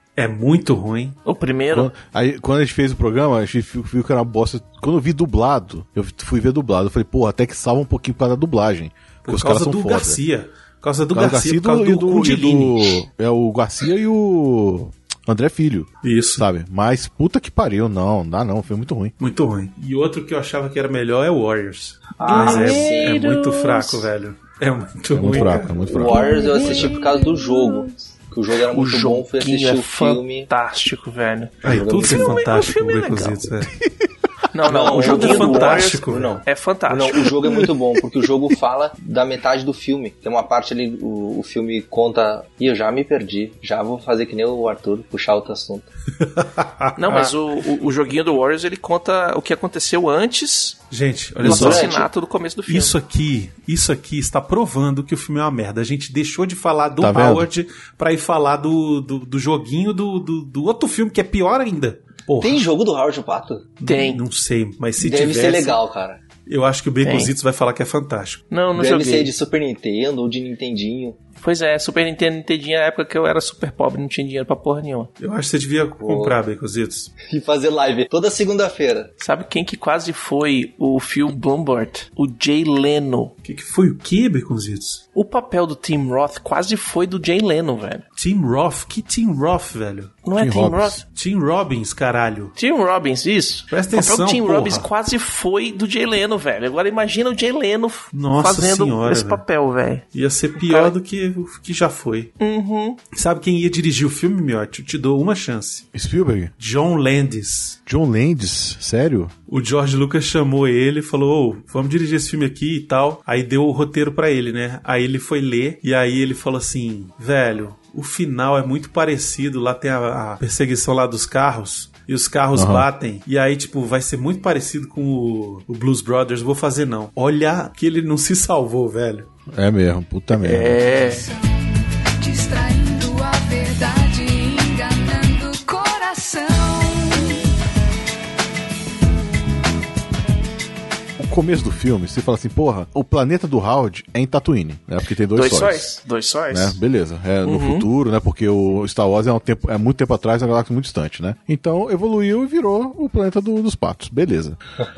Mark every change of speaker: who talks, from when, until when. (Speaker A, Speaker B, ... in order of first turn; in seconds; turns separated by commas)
Speaker A: 0.2-1.2, Speaker B: 1.2-1.9, Speaker C: 1.7-10.2, Speaker A: 9.2-12.9, Speaker C: 11.1-19.1, Speaker A: 16.0-16.4, Speaker A: 19.2-25.8, Speaker D: 22.2-23.2, Speaker B: 22.2-24.1, Speaker C: 25.1-27.0, Speaker D: 25.9-30.5, Speaker B: 26.1-27.8, Speaker B: 28.7-33.4, Speaker A: 31.6-33.7, Speaker D: 31.6-32.4, Speaker B: 34.5-37.3, Speaker D: 34.7-45.9, Speaker A: 34.7-36.4, Speaker A: 46.4-47.3, Speaker B: 47.0-50.8, Speaker A: 50.9-51.9, Speaker D: 51.4-52.1, Speaker B: 51.4-53.0, Speaker A: 52.7-62.7, Speaker C: 57.0-57.5, Speaker D: 62.4-63.7, Speaker A: 63.8-65.8, Speaker B: 63.8-64.2, Speaker D: 65.0-66.2, Speaker A: 66.5-68.4, Speaker B: 67.0-67.3, Speaker B: 68.5-69.3, Speaker D: 68.8-71.2, Speaker B: 71.4-75.1, Speaker A: 75.2-77.1, Speaker D: 76.0-76.4, Speaker D: 77.2-79.1, Speaker B: 79.2-83.3, Speaker A: 83.4-85.0, Speaker B: 85.2-88.0, Speaker A: 88.2-90.2, Speaker B: 90.2-91.0, Speaker C: 90.4-91.0, Speaker A: 91.1-92.5, Speaker B: 92.6-100.0, Speaker A: 93.7-94.9, Speaker A: 98.1-99.4, Speaker A: 100.1-102.3, Speaker B: 100.6-100.9, Speaker B: 102.4-103.0, Speaker A: 103.1-105.9, Speaker C: 105.9-106.5, Speaker A: 106.6-107.8, Speaker C: 107.9-109.3, Speaker A: 109.5-129.3, Speaker C: 122.5-122.9, Speaker C: 129.5-130.8, Speaker B: 130.3-131.3, Speaker E: 130.9-137.5, Speaker C: 141.2-145.9, Speaker B: 145.3-146.8, Speaker C: 146.5-154.6, Speaker B: 147.4-147.9